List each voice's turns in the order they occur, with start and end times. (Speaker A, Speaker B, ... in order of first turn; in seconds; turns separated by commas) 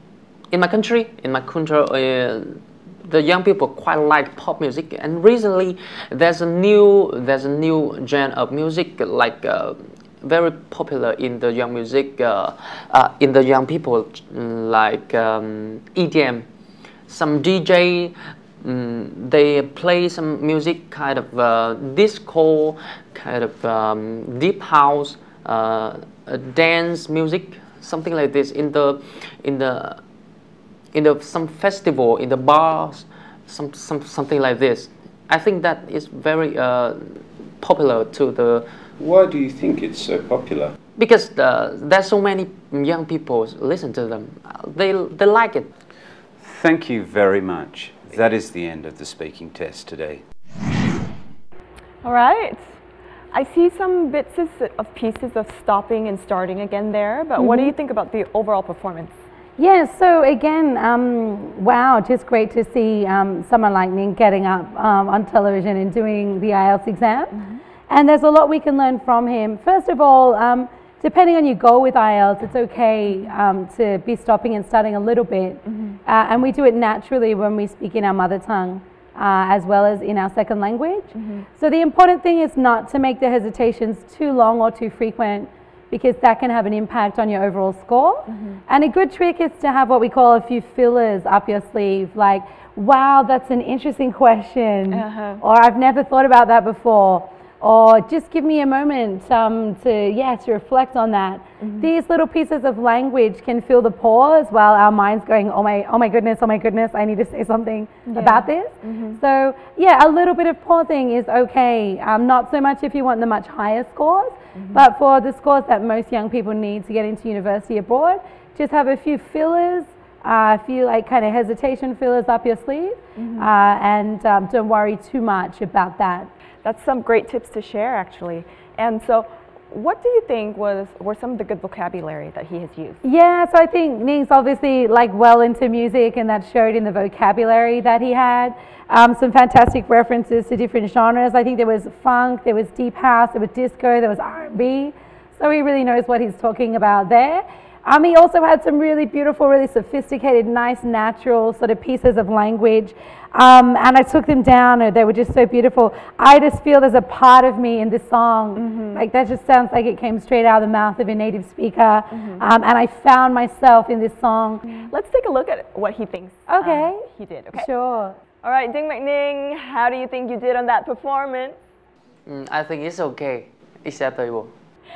Speaker A: 0.5-16.4, Speaker A: 17.1-30.0, Speaker A: 30.9-38.7, Speaker B: 39.0-40.7, Speaker A: 41.0-45.7, Speaker B: 46.4-50.2, Speaker C: 52.0-52.6, Speaker C: 53.3-59.1, Speaker D: 57.4-57.7, Speaker D: 59.6-67.4, Speaker D: 67.9-126.3, Speaker C: 75.7-76.0, Speaker C: 81.1-81.5, Speaker C: 88.3-88.6, Speaker C: 94.9-95.4, Speaker C: 101.6-101.9, Speaker C: 108.1-109.2, Speaker C: 114.5-114.8, Speaker C: 123.2-123.5, Speaker C: 126.6-133.0, Speaker D: 133.0-164.8, Speaker C: 158.6-159.0, Speaker C: 162.1-162.4, Speaker C: 164.8-167.7, Speaker D: 166.5-168.2, Speaker C: 168.4-171.5, Speaker A: 172.2-174.5